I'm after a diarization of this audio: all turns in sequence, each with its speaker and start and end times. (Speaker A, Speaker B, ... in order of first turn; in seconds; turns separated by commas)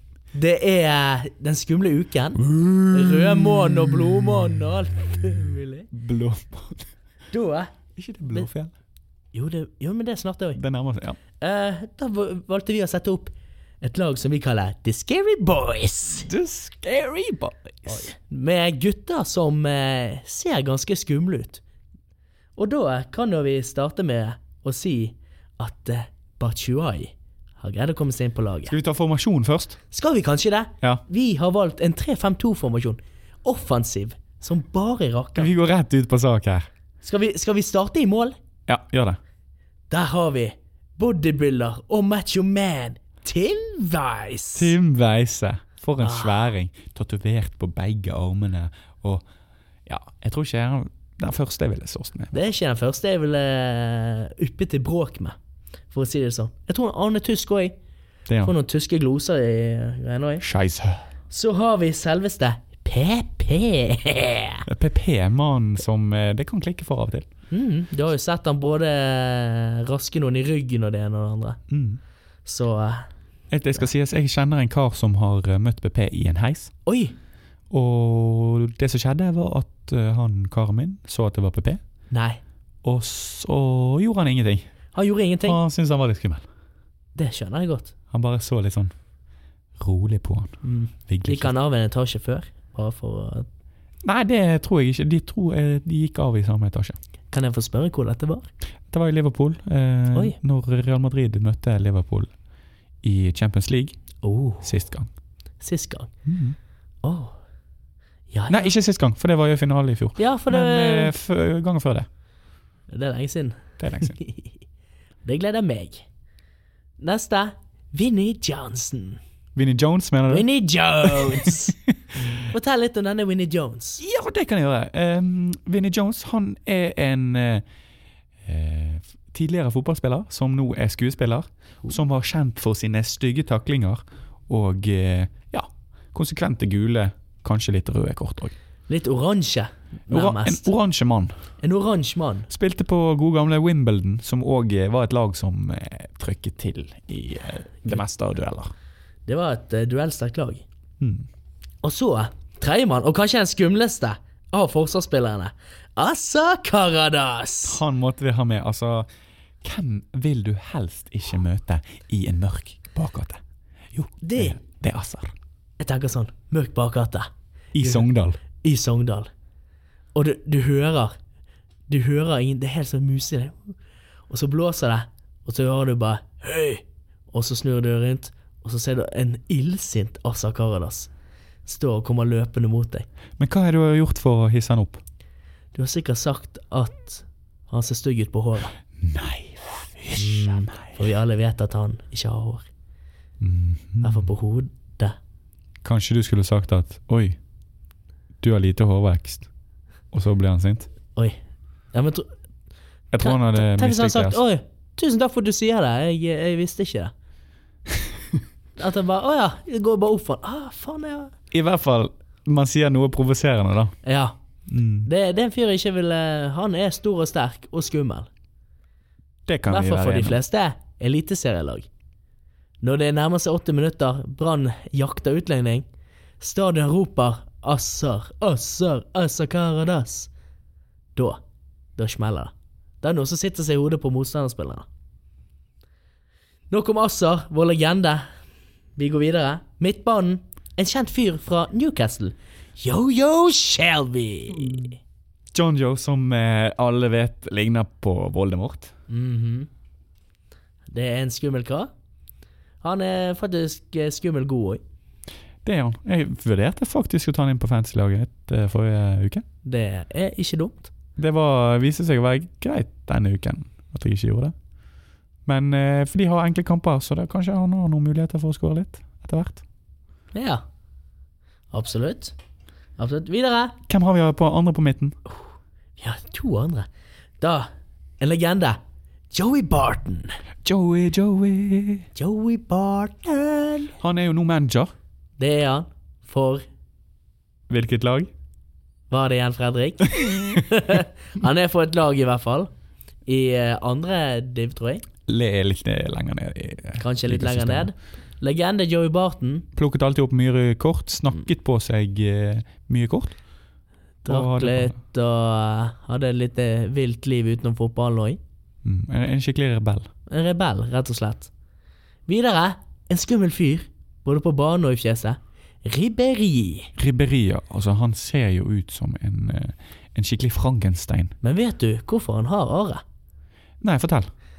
Speaker A: 0.3-5.9, Speaker B: 2.5-4.0, Speaker B: 5.9-6.9, Speaker A: 7.3-7.7, Speaker B: 8.0-8.7, Speaker A: 9.3-10.6, Speaker B: 10.5-11.2, Speaker A: 11.4-16.3, Speaker B: 16.1-18.1, Speaker A: 17.9-21.6, Speaker A: 22.6-28.7, Speaker B: 28.7-29.8, Speaker A: 29.9-35.5, Speaker B: 35.4-36.7, Speaker A: 37.0-38.3, Speaker B: 38.7-39.2, Speaker A: 39.9-44.7, Speaker B: 44.5-49.2, Speaker A: 46.0-46.5, Speaker B: 49.9-52.3, Speaker A: 52.3-55.4, Speaker A: 55.9-57.8, Speaker B: 58.3-58.5, Speaker A: 58.4-60.4, Speaker B: 60.4-61.0, Speaker A: 61.3-64.6, Speaker B: 64.7-67.3, Speaker A: 67.5-71.6, Speaker B: 71.7-72.0, Speaker A: 72.4-73.1, Speaker B: 73.5-76.7, Speaker A: 76.8-77.1, Speaker B: 77.7-81.8, Speaker A: 82.1-82.4, Speaker B: 82.8-84.7, Speaker A: 84.9-85.6, Speaker B: 85.4-86.4, Speaker A: 87.2-87.9, Speaker B: 88.1-88.9, Speaker B: 89.8-91.5, Speaker A: 90.6-93.5, Speaker B: 94.0-97.0, Speaker A: 97.3-98.5, Speaker B: 98.9-102.3, Speaker B: 103.0-104.0, Speaker A: 104.2-104.7, Speaker B: 104.6-105.1, Speaker A: 105.6-106.1, Speaker B: 106.2-106.6, Speaker A: 107.0-107.3, Speaker A: 108.3-108.7, Speaker B: 108.5-112.1, Speaker A: 110.2-111.1, Speaker A: 112.9-114.5, Speaker B: 113.8-114.2, Speaker A: 115.2-116.0, Speaker A: 117.0-119.2, Speaker B: 119.5-120.5, Speaker A: 120.3-124.0, Speaker B: 121.0-121.6, Speaker B: 124.0-127.6, Speaker B: 128.4-138.5, Speaker A: 138.9-140.7, Speaker B: 140.1-141.3, Speaker A: 141.6-142.5, Speaker B: 142.5-148.7, Speaker A: 149.2-150.6, Speaker B: 151.0-151.3, Speaker A: 151.8-157.8, Speaker B: 157.6-159.1, Speaker B: 159.6-163.4, Speaker B: 163.9-165.3, Speaker A: 164.2-164.6, Speaker A: 165.8-167.3, Speaker B: 167.7-168.4, Speaker A: 167.8-169.3, Speaker A: 170.1-171.1, Speaker A: 171.9-173.7, Speaker A: 174.3-181.1, Speaker A: 181.7-183.1, Speaker B: 183.4-185.0, Speaker A: 185.7-188.8, Speaker B: 189.0-191.0, Speaker A: 190.1-192.6, Speaker B: 193.4-194.3, Speaker A: 194.0-195.2, Speaker B: 195.8-197.4, Speaker B: 198.4-199.5, Speaker B: 200.1-200.9, Speaker A: 201.9-202.3, Speaker B: 203.1-204.4, Speaker A: 203.2-207.1, Speaker A: 208.8-211.3, Speaker B: 211.5-213.9, Speaker A: 214.0-214.3, Speaker B: 214.7-215.1, Speaker A: 215.0-218.3, Speaker B: 219.5-220.4, Speaker A: 219.7-221.9, Speaker A: 222.8-225.9, Speaker A: 226.4-230.3, Speaker A: 231.2-231.4, Speaker A: 232.0-234.8, Speaker A: 236.7-238.3, Speaker A: 239.0-244.9, Speaker B: 244.6-244.9, Speaker B: 245.5-248.9, Speaker A: 249.1-249.7, Speaker A: 250.9-251.9, Speaker A: 252.8-254.8, Speaker B: 255.6-259.4, Speaker A: 259.6-260.9, Speaker B: 261.2-264.5, Speaker B: 265.4-269.6, Speaker A: 270.3-270.6, Speaker A: 271.7-272.3, Speaker A: 273.0-273.8, Speaker B: 273.9-275.1, Speaker A: 276.0-276.9, Speaker A: 277.4-278.8, Speaker A: 279.3-280.4, Speaker B: 280.6-282.1, Speaker A: 282.1-283.9, Speaker B: 284.0-284.9, Speaker A: 285.4-286.6, Speaker B: 287.7-288.3, Speaker A: 289.1-292.7, Speaker A: 293.2-295.0, Speaker B: 295.3-297.9, Speaker A: 297.0-299.7, Speaker B: 299.8-303.3, Speaker A: 304.2-308.4, Speaker B: 304.3-305.0, Speaker B: 308.8-310.1, Speaker A: 310.3-311.5, Speaker A: 312.3-316.9, Speaker B: 316.9-321.3, Speaker A: 321.4-323.0, Speaker B: 323.8-324.3